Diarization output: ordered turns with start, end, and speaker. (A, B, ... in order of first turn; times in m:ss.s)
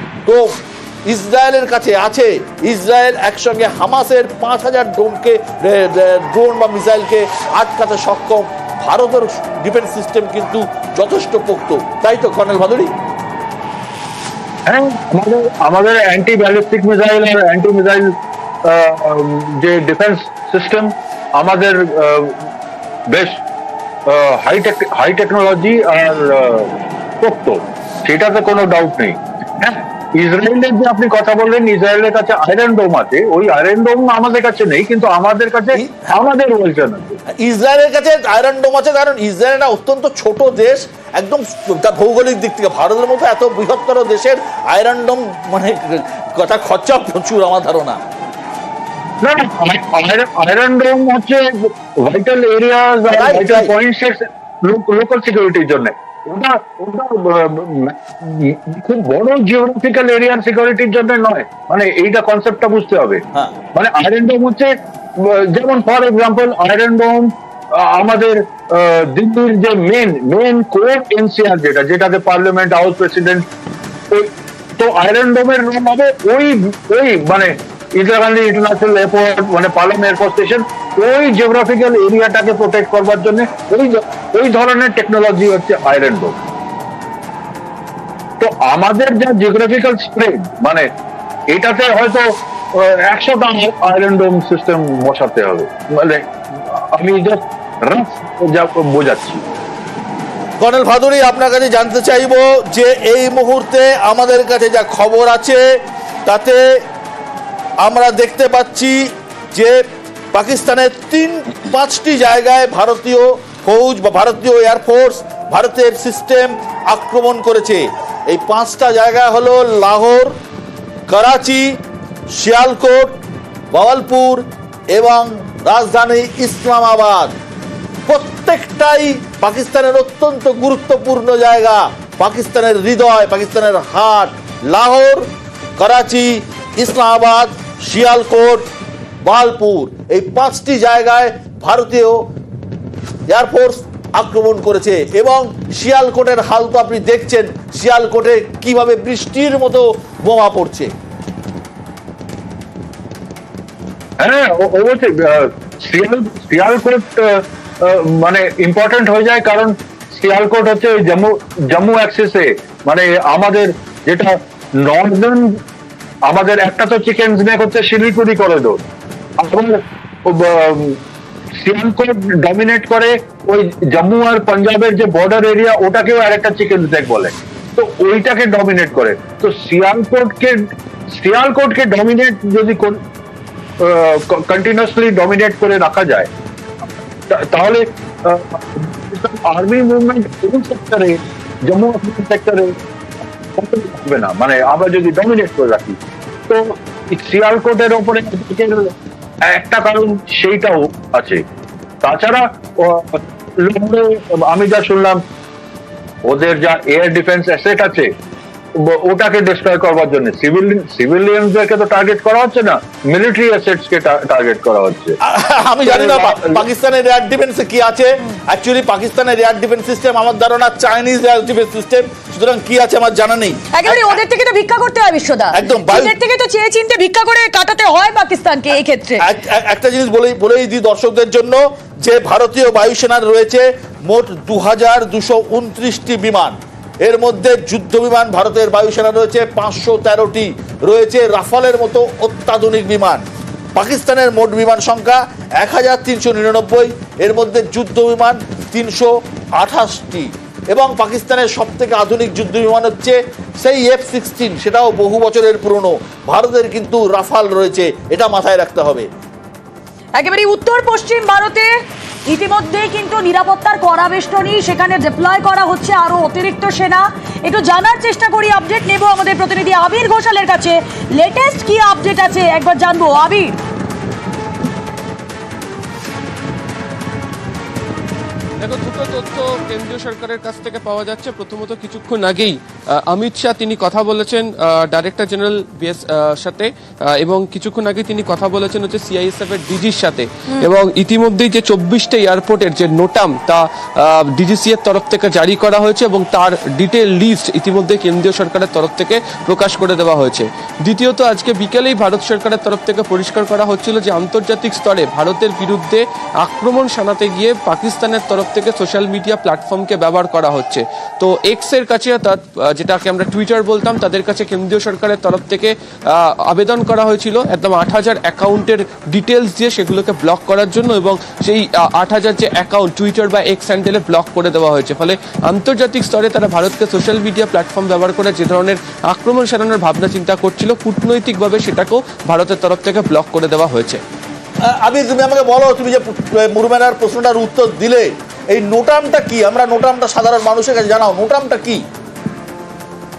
0:00.2-0:00.6 A
0:01.1-0:12.9 A
0:14.7-0:18.1 B
0:18.6-0:22.4 B
0:23.1-0:23.4 B
0:24.1-0:26.7 B
0:27.2-0:37.2 B
0:35.8-0:36.1 A
0:37.4-0:48.0 A
0:49.2-1:03.2 B
0:53.1-0:53.7 A
1:03.7-1:13.4 B
1:14.1-1:26.4 B
1:28.4-1:30.8 B
1:31.5-1:39.4 B
1:40.6-1:45.6 A
1:46.2-1:46.6 A
1:47.8-1:49.0 A
1:49.5-1:49.8 A
1:50.3-2:00.3 A
2:01.1-2:01.8 A
2:02.4-2:03.2 A
2:03.7-2:07.3 A
2:08.1-2:15.3 A
2:15.8-2:18.6 A
2:19.2-2:22.2 A
2:23.3-2:30.9 A
2:34.2-2:37.2 B
2:37.8-2:45.4 B
2:46.3-2:48.8 B
2:49.4-2:51.0 B
2:51.6-3:00.6 B
3:01.1-3:03.0 B
3:03.8-3:06.3 B
3:07.3-3:12.7 B
3:13.5-3:18.9 B
3:19.4-3:21.4 B
3:22.0-3:25.2 B
3:26.2-3:28.1 B
3:28.8-3:35.2 B
3:35.2-3:44.2 A
3:35.9-3:36.6 B
3:43.7-3:49.2 C
3:45.5-3:46.1 A
3:49.2-4:03.2 A
4:03.7-4:19.1 A
4:20.2-4:33.6 C
4:38.6-5:34.0 D
5:34.7-5:41.8 A